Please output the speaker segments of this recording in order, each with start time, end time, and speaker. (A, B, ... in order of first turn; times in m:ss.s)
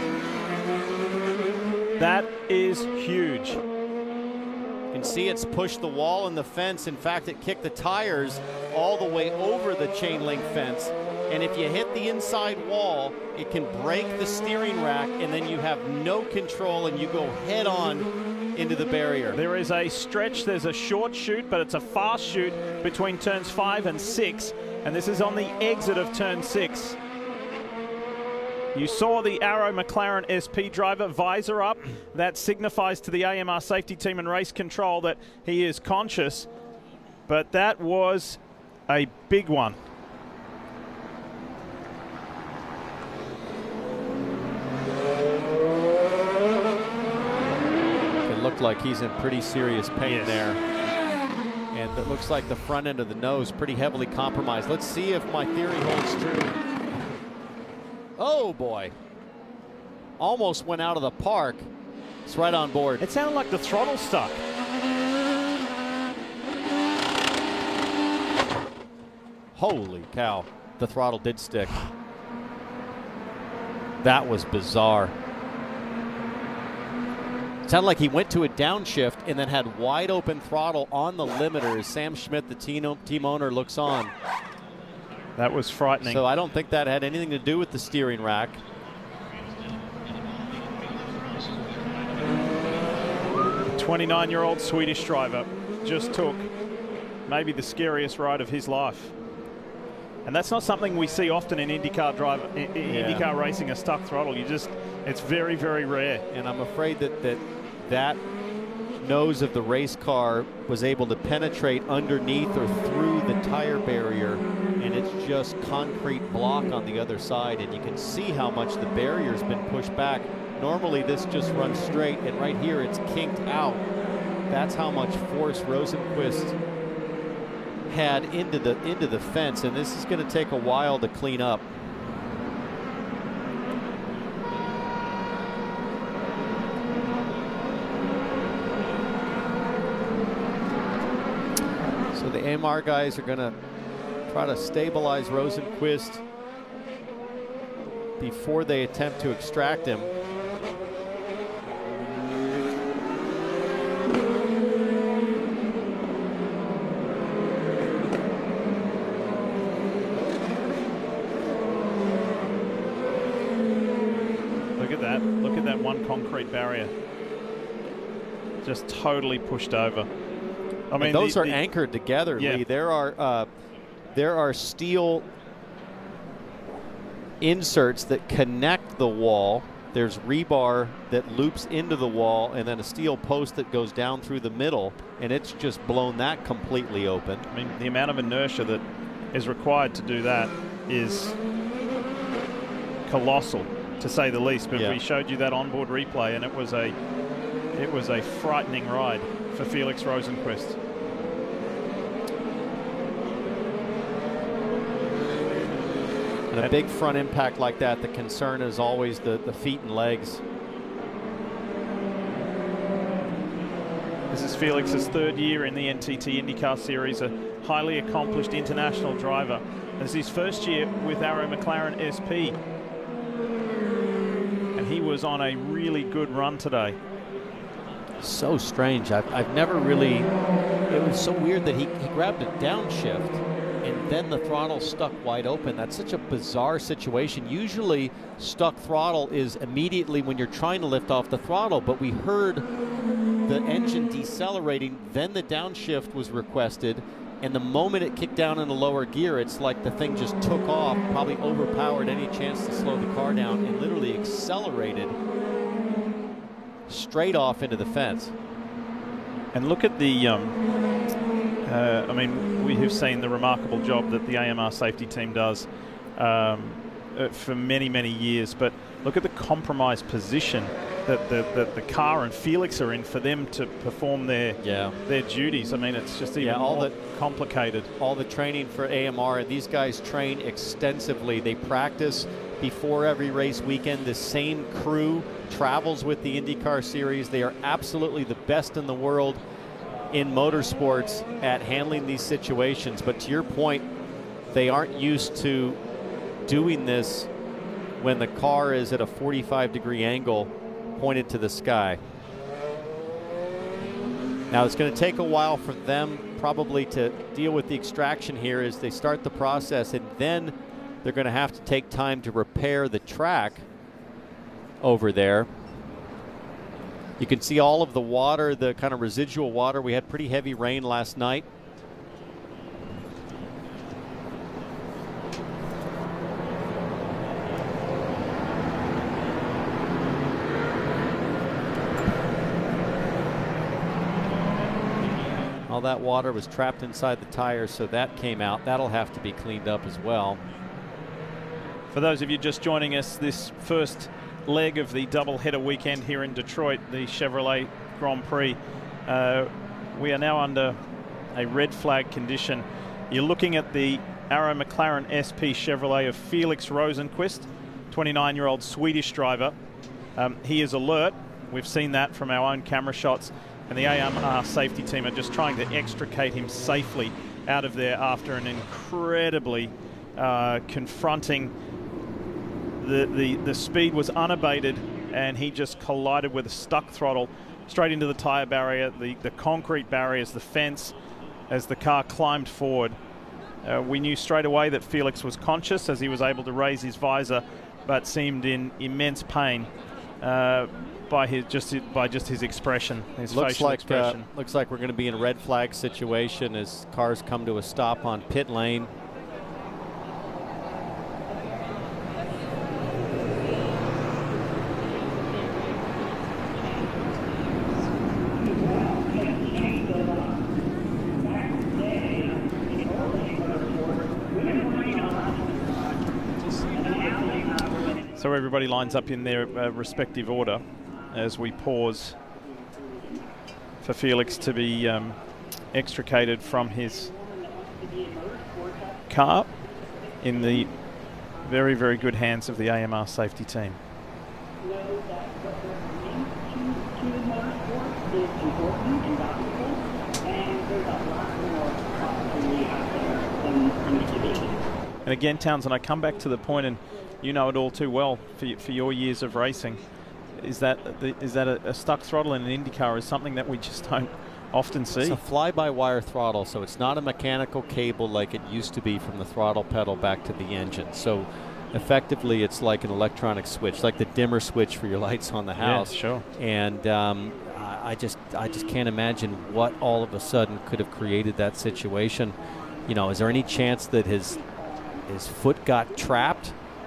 0:02.0-0:03.6 A
0:04.9-0:19.4 B
0:19.3-0:27.0 A
0:28.7-0:36.5 A
0:37.3-0:39.8 A
0:48.3-0:50.6 B
0:50.0-0:50.4 A
0:51.7-0:56.6 B
0:58.2-0:58.9 B
1:00.2-1:01.7 B
1:02.3-1:03.0 B
1:03.0-1:04.4 A
1:09.6-1:11.8 B
1:14.0-1:15.2 B
1:17.7-1:24.1 B
1:25.4-1:26.2 A
1:26.0-1:28.6 B
1:33.8-1:36.5 A
1:37.3-1:39.1 A
1:40.2-1:46.2 A
1:42.8-1:43.3 B
1:46.3-1:48.2 B
1:49.0-2:03.8 B
2:04.5-2:06.6 B
2:07.9-2:11.7 B
2:22.1-2:23.5 B
2:24.3-2:26.2 B
2:28.2-2:30.1 B
2:44.8-2:46.9 A
2:48.6-2:50.1 A
2:50.9-2:51.6 A
2:51.0-2:53.5 B
2:52.4-2:52.6 A
2:54.1-2:55.2 B
2:57.4-3:07.4 B
3:07.5-3:11.4 A
3:13.1-3:17.0 A
3:14.7-3:15.0 B
3:17.8-3:20.8 A
3:26.5-3:30.4 B
3:34.3-3:42.6 A
3:44.8-3:47.0 A
3:48.2-3:50.3 B
3:50.9-4:02.6 B
4:03.5-4:15.2 B
4:16.9-4:18.3 B
4:19.5-4:20.6 A
4:21.6-4:37.9 A
4:34.6-4:35.0 B
4:36.4-4:37.0 B
4:38.0-4:49.4 B
4:50.1-4:53.8 B
4:54.5-4:55.8 B
4:56.5-4:57.3 B
4:58.0-5:02.0 B
5:04.5-5:13.7 B
5:14.8-5:15.5 B
5:17.2-5:21.5 B
5:35.7-5:40.4 B
5:41.9-5:50.8 A
5:51.3-5:59.6 A
6:00.2-6:11.5 A
6:12.8-6:20.9 A
6:21.5-6:23.0 A
6:23.6-6:34.3 A
6:33.3-6:38.9 B
6:58.2-7:02.2 A
7:03.8-7:05.2 A
7:05.7-7:07.1 A
7:09.1-7:09.5 A
7:10.2-7:10.7 A
7:11.4-7:13.8 A
7:25.1-7:29.8 A
7:30.4-7:35.2 A
7:35.0-7:54.4 B
7:45.6-7:46.2 A
7:55.1-7:56.6 B